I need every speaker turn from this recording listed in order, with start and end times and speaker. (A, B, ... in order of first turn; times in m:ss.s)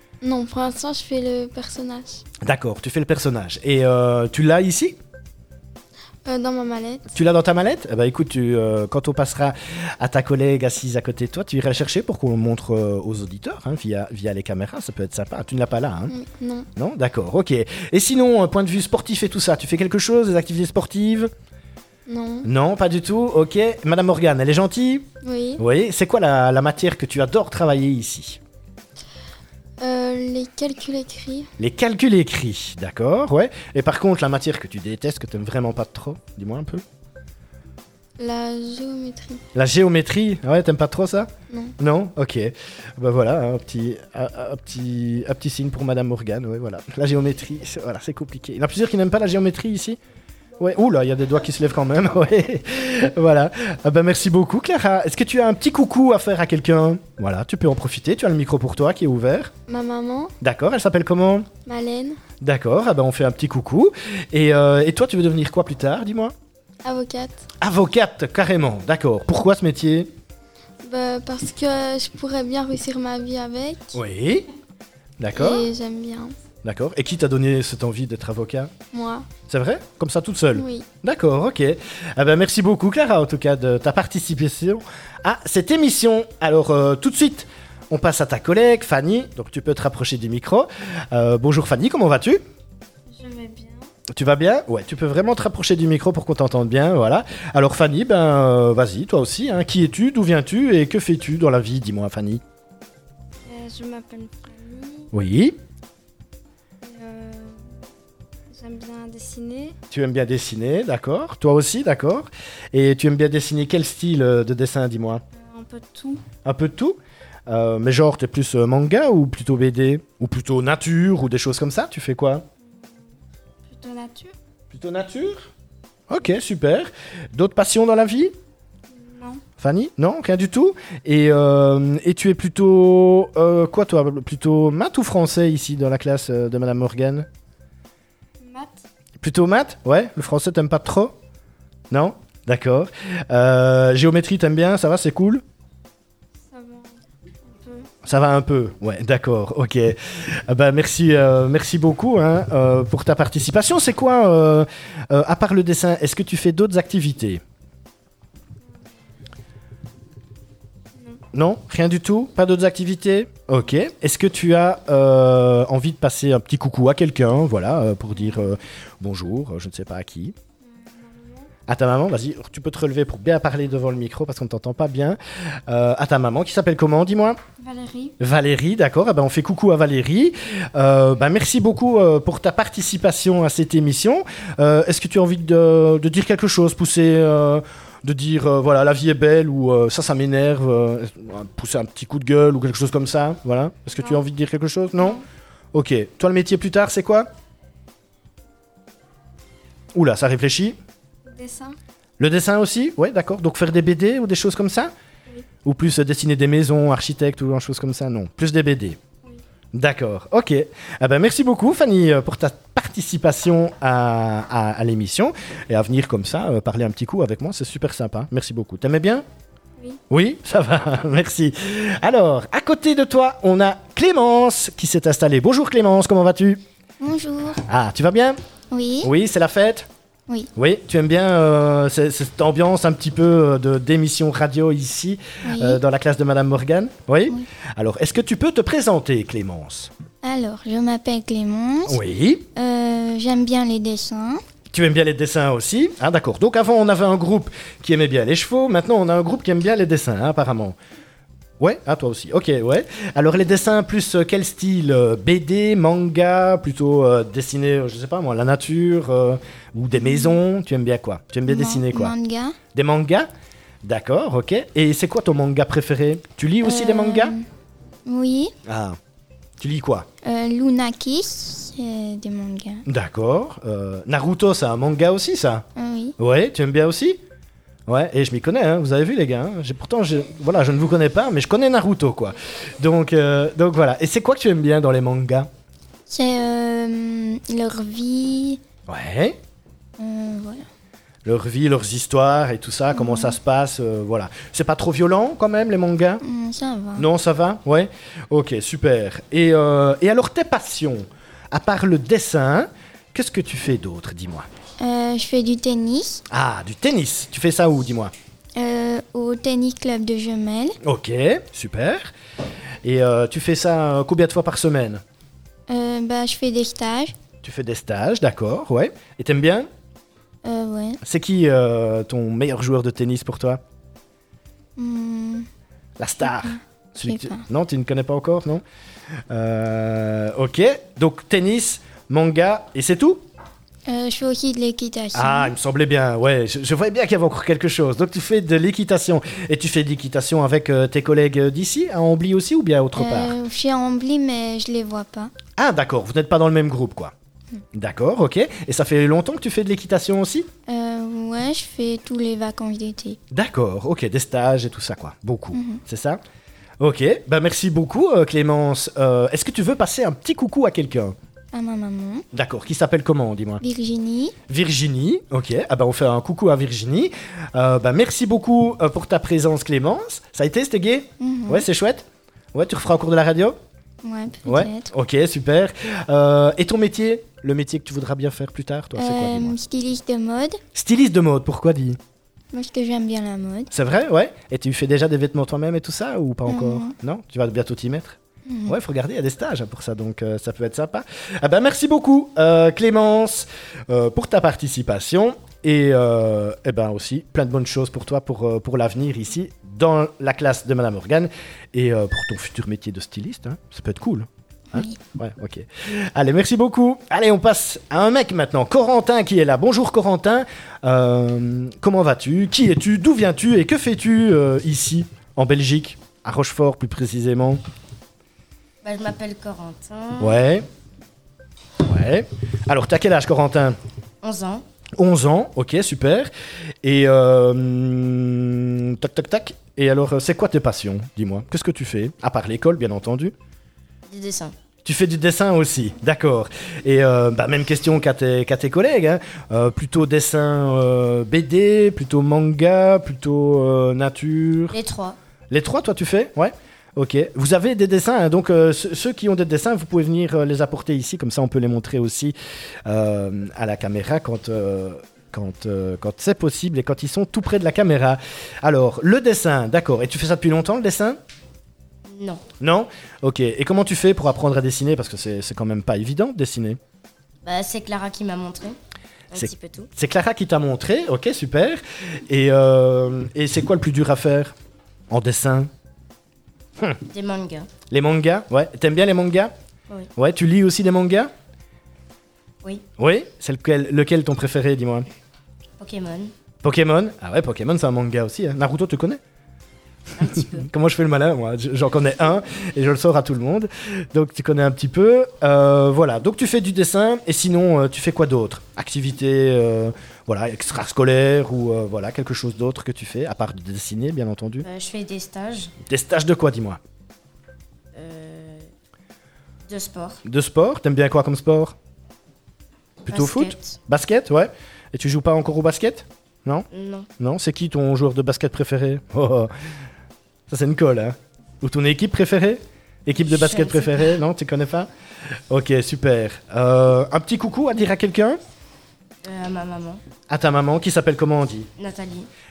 0:00.2-0:02.2 A
0:02.4-0:05.0 B
0:06.2-0:07.0 A
0:07.1-0:16.1 B
0:16.1-0:16.7 A
0:16.8-0:21.3 B
0:22.1-0:22.4 A
0:22.4-0:25.1 B
0:25.2-0:25.6 A
0:25.6-0:28.4 B
0:29.8-0:31.5 A
0:31.6-0:36.8 B
0:38.2-0:39.4 A
0:39.5-0:50.0 B
0:50.6-0:59.5 B
0:59.7-1:00.3 A
1:00.4-1:01.5 B
1:01.7-1:02.2 A
1:02.4-1:06.3 B
1:06.8-1:07.4 A
1:07.6-1:10.1 B
1:10.8-1:13.9 A
1:13.9-1:14.5 B
1:15.2-1:15.7 B
1:15.3-1:16.3 A
1:16.6-1:18.7 B
1:18.9-1:19.2 A
1:19.5-1:32.4 B
1:20.6-1:20.8 A
1:33.2-1:33.5 A
1:33.5-1:33.8 C
1:34.1-1:42.4 B
1:43.5-1:44.5 A
1:43.7-1:44.1 C
1:44.6-1:45.0 C
1:45.1-1:45.6 B
1:46.9-1:47.4 A
1:48.6-1:48.9 A
1:48.8-1:49.7 C
1:49.9-1:55.2 B
1:55.4-1:56.2 C
1:56.4-2:02.5 B
2:03.8-2:04.1 A
2:04.0-2:04.3 C
2:04.7-2:05.5 B
2:06.1-2:08.3 B
2:09.6-2:17.3 B
2:19.2-2:21.2 B
2:21.9-2:25.4 B
2:26.5-2:26.8 A
2:28.0-2:37.4 B
2:41.3-2:50.3 B
2:51.7-2:57.4 B
2:57.6-2:58.1 A
2:58.2-3:17.3 B
3:19.9-3:20.8 B
3:21.3-3:21.7 A
3:22.2-3:24.9 B
3:25.6-3:29.0 B
3:29.7-3:39.2 B
3:40.1-3:46.6 B
3:47.0-3:47.6 A
3:47.6-3:48.4 B
3:48.7-3:49.1 A
3:49.0-3:49.9 B
3:50.6-3:59.9 B
3:55.4-3:55.8 A
4:00.2-4:02.0 A
4:01.9-4:02.5 B
4:02.5-4:04.4 A
4:04.7-4:10.8 B
4:11.6-4:22.1 B
4:20.0-4:20.4 A
4:21.5-4:22.6 A
4:22.7-4:23.3 B
4:23.8-4:27.4 B
4:26.6-4:27.5 A
4:28.1-4:28.5 A
4:28.6-4:29.0 B
4:29.6-4:30.1 B
4:30.2-4:32.8 A
4:32.9-4:35.6 B
4:35.8-4:36.1 A
4:36.2-4:37.2 B
4:37.9-4:45.5 B
4:46.1-4:48.6 A
4:48.9-4:49.4 B
4:50.0-4:50.6 A
4:51.2-4:56.2 B
4:52.9-4:53.4 A
4:56.2-4:57.1 A
4:57.0-5:04.5 B
5:04.8-5:06.2 A
5:06.3-5:08.1 B
5:08.6-5:10.8 A
5:10.8-5:12.1 B
5:12.8-5:15.0 B
5:15.7-5:17.1 A
5:17.4-5:19.7 B
5:20.4-5:21.0 A
5:21.0-5:23.6 B
5:24.8-5:25.5 A
5:26.0-5:28.6 B
5:27.0-5:27.4 A
5:29.3-5:33.2 B
5:33.9-5:35.5 A
5:35.1-5:43.4 B
5:43.0-5:45.3 A
5:45.6-5:47.1 B
5:47.8-5:50.5 B
5:50.7-5:53.2 A
5:53.3-5:56.2 B
5:55.5-5:55.8 A
5:56.8-6:01.2 B
6:01.5-6:02.2 A
6:02.3-6:03.6 B
6:03.6-6:04.4 A
6:04.5-6:13.6 B
6:11.2-6:11.6 A
6:14.0-6:14.9 A
6:14.4-6:19.6 B
6:19.0-6:20.6 A
6:20.7-6:22.0 B
6:22.5-6:23.7 A
6:23.7-6:57.6 B
6:26.5-6:27.0 A
6:28.5-6:28.8 A
6:58.8-7:00.4 D
7:00.2-7:00.6 B
7:01.8-7:03.8 B
7:04.2-7:04.6 D
7:05.0-7:06.3 B
7:06.8-7:13.3 B
7:14.1-7:14.5 D
7:14.8-7:24.8 B
7:24.7-7:25.2 D
7:25.5-7:32.4 B
7:32.9-7:41.2 B
7:42.1-7:42.4 D
7:42.6-7:46.8 B
7:47.4-7:48.8 D
7:49.3-7:49.9 D
7:49.4-7:54.5 B
7:55.1-7:55.7 B
7:57.1-7:57.7 D
7:57.9-7:59.5 B
8:00.2-8:01.3 B
8:03.0-8:05.1 B
8:05.8-8:06.3 D
8:06.6-8:09.2 B
8:10.2-8:10.7 D
8:10.5-8:24.7 B
8:24.6-8:25.7 D
8:25.9-8:26.8 B
8:28.0-8:28.7 D
8:29.7-8:30.2 D
8:30.2-8:31.8 B
8:33.0-8:39.5 B
8:33.1-8:33.8 D
8:36.7-8:37.1 D
8:40.5-8:44.9 B
8:43.1-8:44.2 D
8:45.5-8:48.4 B
8:49.2-8:50.0 D
8:50.3-8:51.7 B
8:51.8-8:52.3 D